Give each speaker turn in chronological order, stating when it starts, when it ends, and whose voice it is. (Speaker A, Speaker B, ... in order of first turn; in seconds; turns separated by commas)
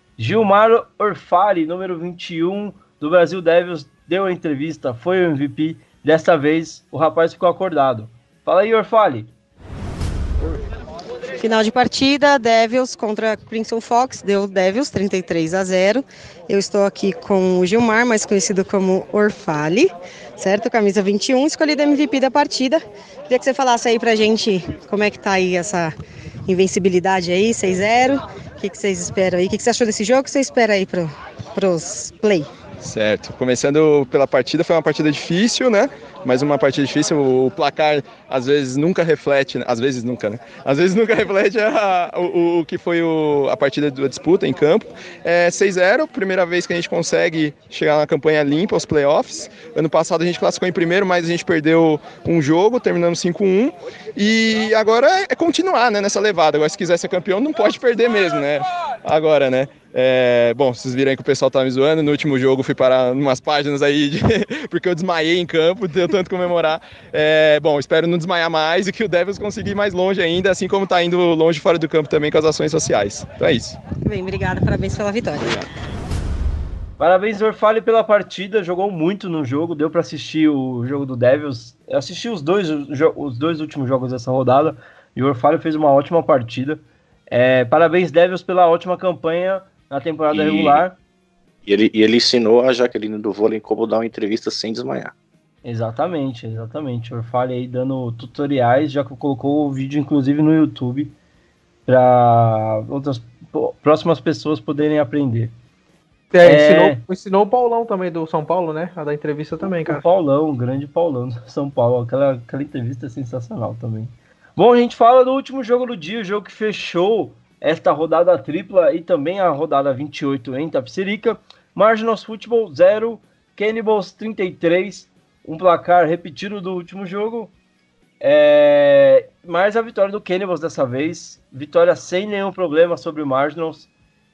Speaker A: 0.2-9.3, Speaker B: 11.4-25.9, Speaker B: 26.5-32.5, Speaker C: 32.8-73.8, Speaker B: 74.0-75.7, Speaker A: 77.0-91.0, Speaker D: 90.3-90.8, Speaker D: 91.7-95.1, Speaker A: 95.6-101.1, Speaker A: 101.9-105.5, Speaker E: 106.3-110.0, Speaker A: 106.4-107.0, Speaker A: 109.7-127.5, Speaker A: 128.2-133.9